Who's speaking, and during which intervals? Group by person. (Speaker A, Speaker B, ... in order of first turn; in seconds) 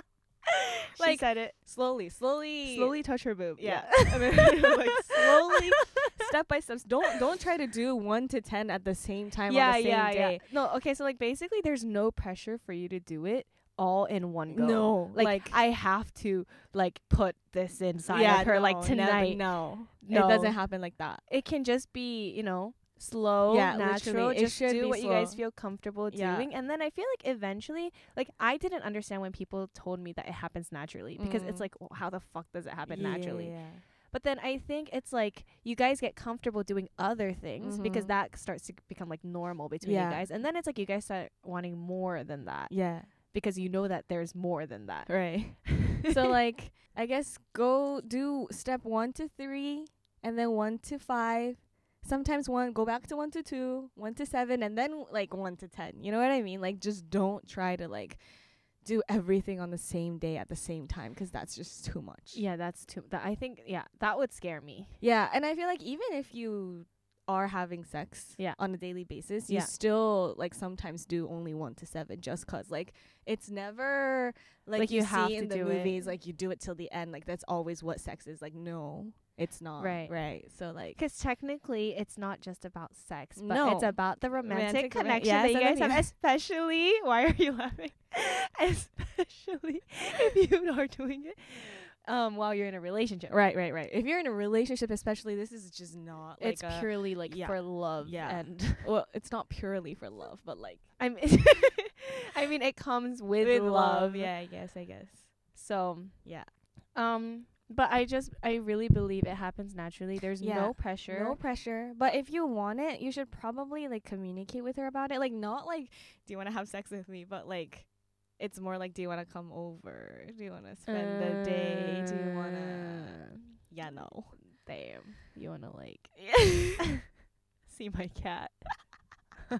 Speaker A: 0.9-1.6, 2.7-6.2, 9.5-20.6, 21.2-46.3, 62.3-65.0, 69.4-69.7, 74.8-76.2, 79.8-80.2, 80.9-93.4, 96.4-98.9, 101.0-104.4, 105.5-106.3, 106.9-111.4, 120.9-126.2, 127.7-128.8
Speaker B: 1.0-10.4, 14.5-15.6, 18.1-21.2, 23.5-25.5, 26.1-26.5, 31.1-31.7, 32.9-33.9, 37.6-38.1, 39.8-40.3, 42.7-43.1, 45.1-62.4, 65.0-81.0, 83.4-86.1, 93.3-100.9, 103.4-105.5, 106.2-106.5, 110.4-124.4, 126.2-126.8